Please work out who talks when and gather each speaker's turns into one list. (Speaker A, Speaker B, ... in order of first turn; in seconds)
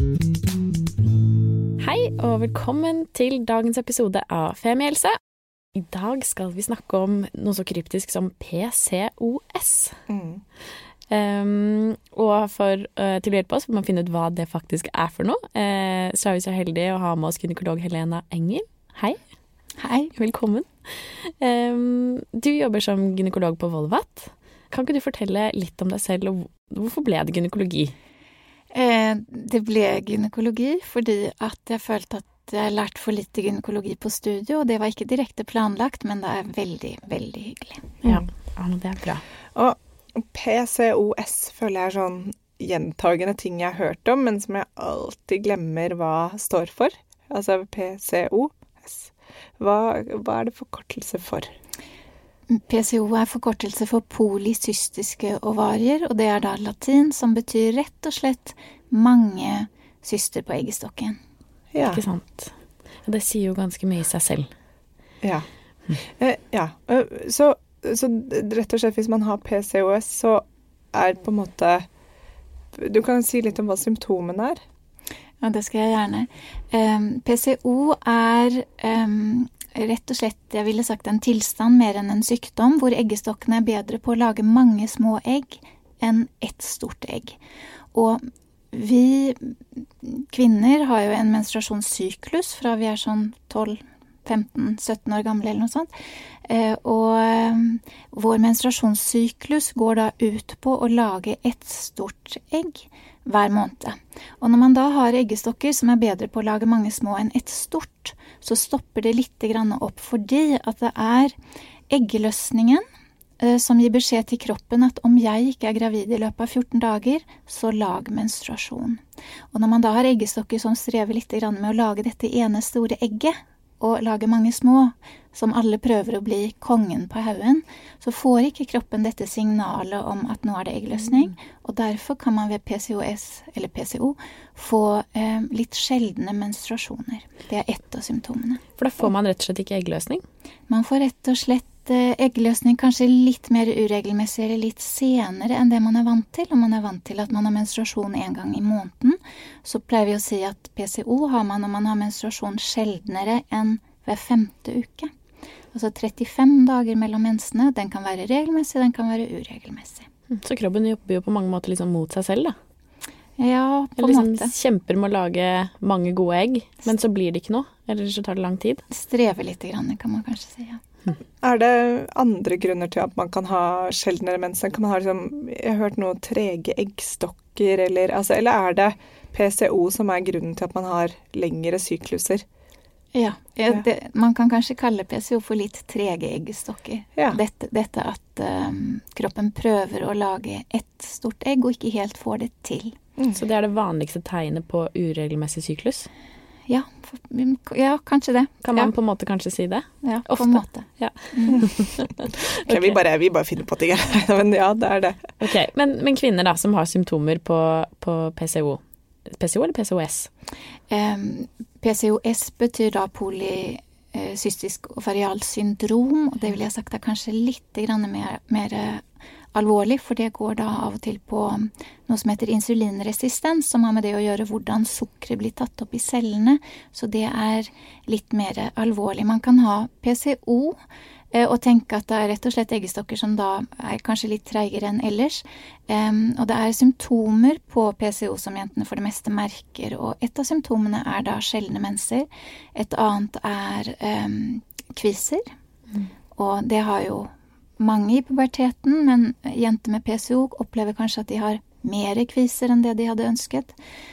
Speaker A: 1.8-5.2, 5.7-9.9, 11.1-19.2, 20.1-27.9, 38.0-39.2, 61.9-62.5, 63.0-64.5, 138.8-140.2, 160.3-162.5, 164.0-168.8, 193.3-196.1, 198.6-202.9, 205.4-210.3
Speaker B: 10.1-10.4, 39.5-51.5, 61.7-62.0, 65.2-71.9, 72.7-74.6, 171.4-182.4, 202.6-205.4
Speaker C: 19.8-20.1, 28.7-37.9, 52.5-61.2, 75.4-87.4, 87.9-95.9, 96.5-111.3, 111.9-112.8, 113.4-119.0, 119.5-138.6, 140.7-155.1, 155.7-160.1, 163.4-164.5, 168.9-170.8, 183.1-193.0, 196.7-198.9, 200.0-201.7, 210.9-230.8, 231.3-245.4, 246.3-253.7